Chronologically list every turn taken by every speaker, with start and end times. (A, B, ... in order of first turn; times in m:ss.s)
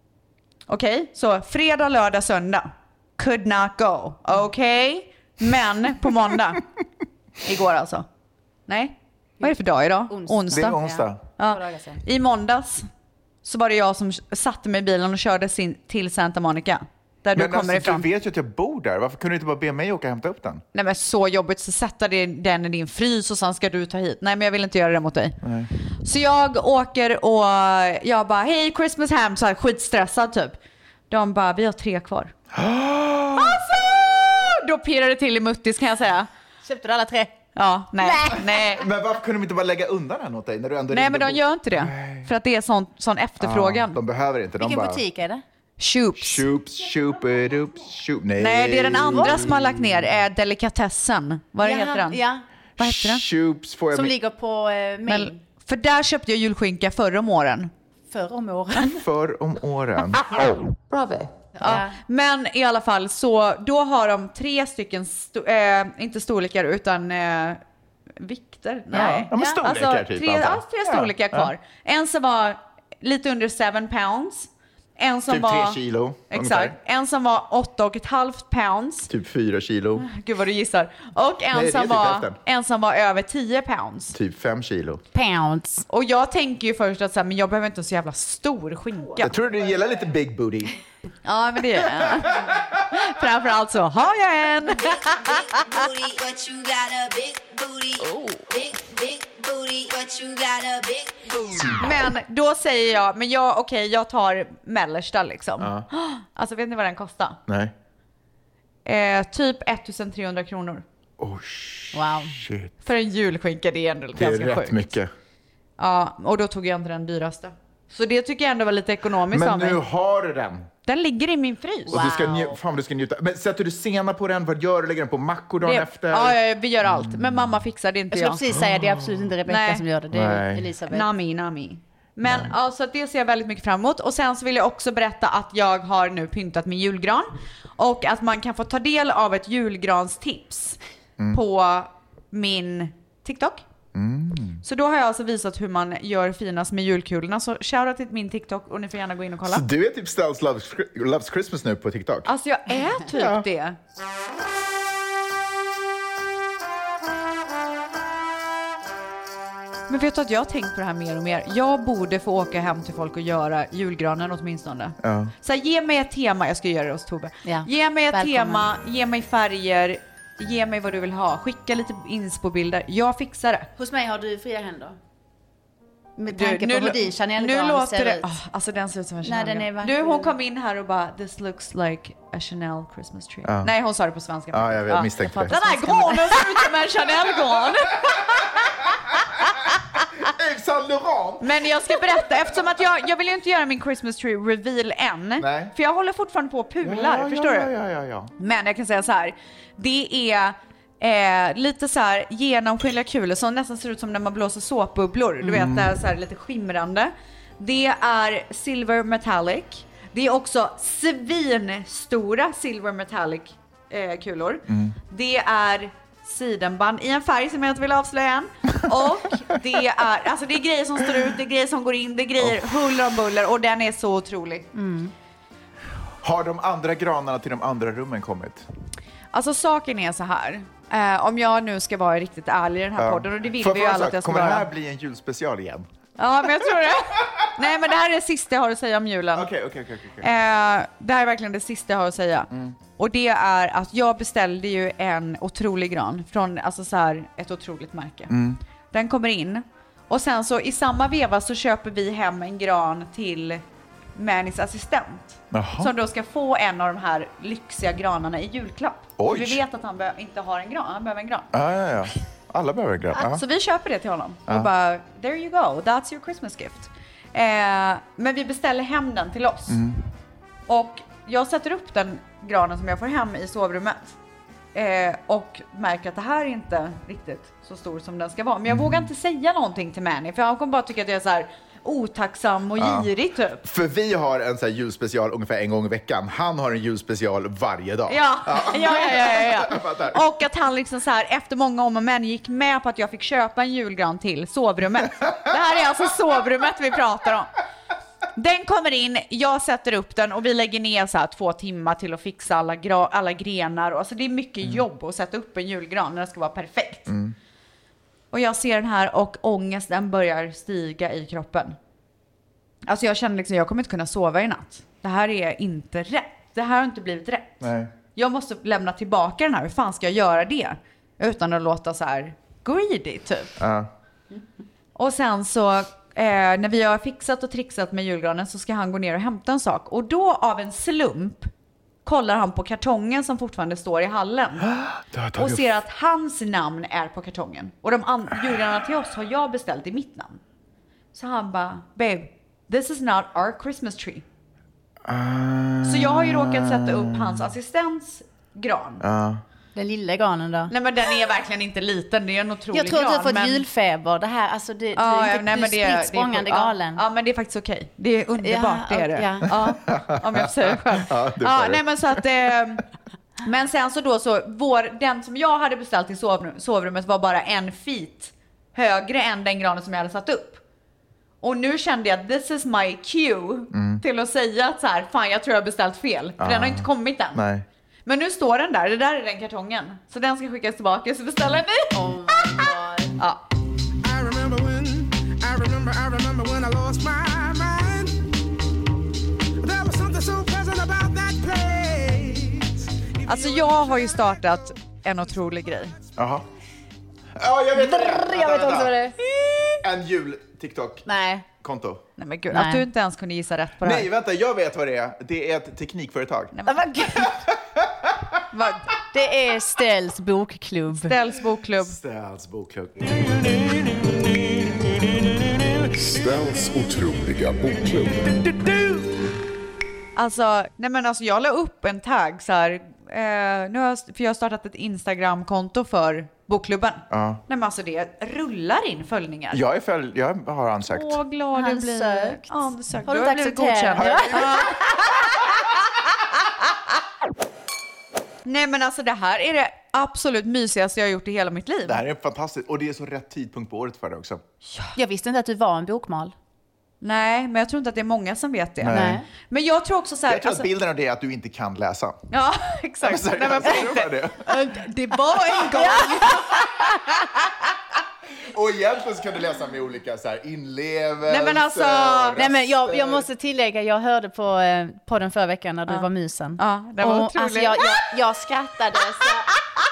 0:00.7-0:06.6 A
0:07.4-0:08.0 A
0:08.7-0:10.8 A
0:10.1-0:12.0 B
0:10.5-0:11.2 C
0:11.4-0:12.9 A
0:13.4-0:18.1 A
0:17.3-0:20.6 C
0:20.7-0:25.4 A
0:25.4-0:25.7 C
0:26.0-0:30.6 A
0:31.1-0:32.3 A
0:32.5-0:33.7 C
0:33.3-0:36.3 A
0:36.6-0:37.3 B
0:37.6-0:38.8 A
0:38.0-0:38.7 B
0:38.6-0:42.3 C
0:40.9-0:44.0 A
0:43.4-0:45.0 C
0:44.6-0:45.4 B
0:45.8-0:46.4 A
0:46.2-0:50.1 C
0:48.4-0:52.2 A
0:49.1-0:49.4 B
0:51.6-0:52.4 B
0:52.8-0:54.1 C
0:52.8-0:53.2 A
0:53.9-0:55.4 B
0:55.0-0:57.7 A
0:58.1-0:59.0 B
0:58.8-1:00.2 C
1:01.6-1:07.6 A
1:01.6-1:01.9 B
1:08.2-1:19.1 A
1:08.9-1:11.5 C
1:08.9-1:09.6 B
1:15.3-1:16.8 C
1:19.1-1:20.1 C
1:20.0-1:24.1 A
1:21.5-1:22.4 C
1:24.1-1:25.0 C
1:25.1-1:25.8 B
1:25.9-1:29.4 A
1:29.2-1:30.8 C
1:31.2-1:35.8 A
1:35.7-1:37.9 D
1:38.5-1:41.1 D
1:41.8-1:47.4 A
1:45.6-1:45.9 C
1:47.5-1:47.7 C
1:48.8-1:50.8 A
1:51.2-1:52.7 C
1:51.9-1:52.3 B
1:52.8-1:54.9 A
1:54.2-1:55.1 C
1:55.8-1:59.8 A
1:59.3-2:00.7 C
2:00.8-2:02.0 A
2:01.9-2:02.6 B
2:01.9-2:07.6 C
2:05.6-2:08.4 A
2:08.1-2:11.1 B
2:08.5-2:09.3 C
2:09.4-2:09.8 A
2:10.1-2:10.7 C
2:10.9-2:20.8 A
2:12.2-2:12.5 C
2:21.3-2:23.6 A
2:23.9-2:24.6 C
2:24.6-2:29.6 A
2:29.4-2:32.3 C
2:32.2-2:33.8 A
2:33.0-2:33.4 C
2:39.9-2:53.7 A
2:45.0-2:45.3 C
2:47.4-2:48.7 B
2:53.8-2:55.0 B
2:56.2-2:58.3 B
2:56.3-3:08.9 A
2:59.2-3:00.3 B
3:03.4-3:03.7 C
3:04.5-3:05.6 C
3:05.3-3:07.1 B
3:10.2-3:12.6 C
3:11.4-3:17.7 A
3:15.4-3:15.7 C
3:16.8-3:18.3 C
3:18.4-3:44.7 A
3:25.4-3:25.9 C
3:34.7-3:35.0 C
3:42.4-3:42.7 C
3:44.7-3:45.1 B
3:46.2-3:48.6 C
3:49.3-3:54.7 A
3:53.0-3:55.9 C
3:56.2-3:59.5 A
3:59.3-4:00.3 C
4:00.2-4:08.3 A
4:02.5-4:02.8 C
4:08.3-4:08.6 C
4:08.9-4:13.6 A
4:14.1-4:21.5 A
4:15.5-4:15.9 C
4:19.2-4:19.6 C
4:21.5-4:23.4 C
4:23.1-4:29.8 A
4:29.7-4:30.0 C
4:30.7-4:34.2 A
4:34.7-4:43.7 A
4:38.7-4:39.1 C
4:42.8-4:43.1 C
4:43.6-4:50.2 C
4:48.1-4:57.5 A
4:58.3-5:07.1 A
5:07.1-5:07.3 C
5:08.3-5:11.8 A
5:12.8-5:17.6 A
5:17.6-5:17.9 C
5:18.1-5:23.5 A
5:23.6-5:23.9 C
5:24.9-5:31.5 A
5:32.0-5:34.7 A
5:34.6-5:35.8 C
5:35.3-5:40.4 A
5:41.1-5:44.2 A
5:45.0-5:47.5 C
5:45.8-5:49.0 A
5:49.0-5:49.4 C
5:49.7-5:50.7 B
5:50.7-5:53.6 A
5:52.7-5:57.0 B
5:54.9-6:02.8 A
5:58.4-5:59.7 B
5:59.5-6:02.2 C
6:03.4-6:10.6 A
6:11.4-6:17.4 A
6:13.7-6:14.0 C
6:16.4-6:17.7 C
6:18.0-6:23.4 A
6:21.9-6:23.1 B
6:24.0-6:28.3 E
6:29.6-6:33.8 E
6:33.2-6:35.9 A
6:36.2-6:36.4 C
6:37.4-6:39.0 C
6:37.7-6:39.1 B
6:39.8-6:41.1 C
6:41.1-6:41.4 B
6:41.6-6:42.0 C
6:42.2-6:44.1 A
6:42.5-6:42.8 B
6:43.8-6:46.6 C
6:46.5-6:47.4 A
6:47.1-6:48.2 C
6:48.5-6:48.9 A
6:49.1-6:51.1 B
6:51.0-6:52.0 A
6:51.8-6:53.7 C
6:55.9-6:58.7 F
7:00.2-7:09.6 A
7:07.1-7:07.4 C
7:09.5-7:11.2 C
7:10.8-7:14.9 A
7:11.5-7:15.3 B
7:14.0-7:14.8 C
7:18.4-7:22.0 A
7:21.8-7:24.4 C
7:25.0-7:26.3 B
7:27.0-7:30.7 A
7:28.8-7:29.2 C
7:28.9-7:29.2 B
7:30.3-7:32.2 C
7:32.3-7:34.5 A
7:33.0-7:34.5 C
7:34.5-7:36.8 B
7:35.0-7:36.8 A
7:38.5-7:43.2 C
7:41.3-7:42.4 A
7:42.4-7:49.5 B
7:46.6-7:48.0 A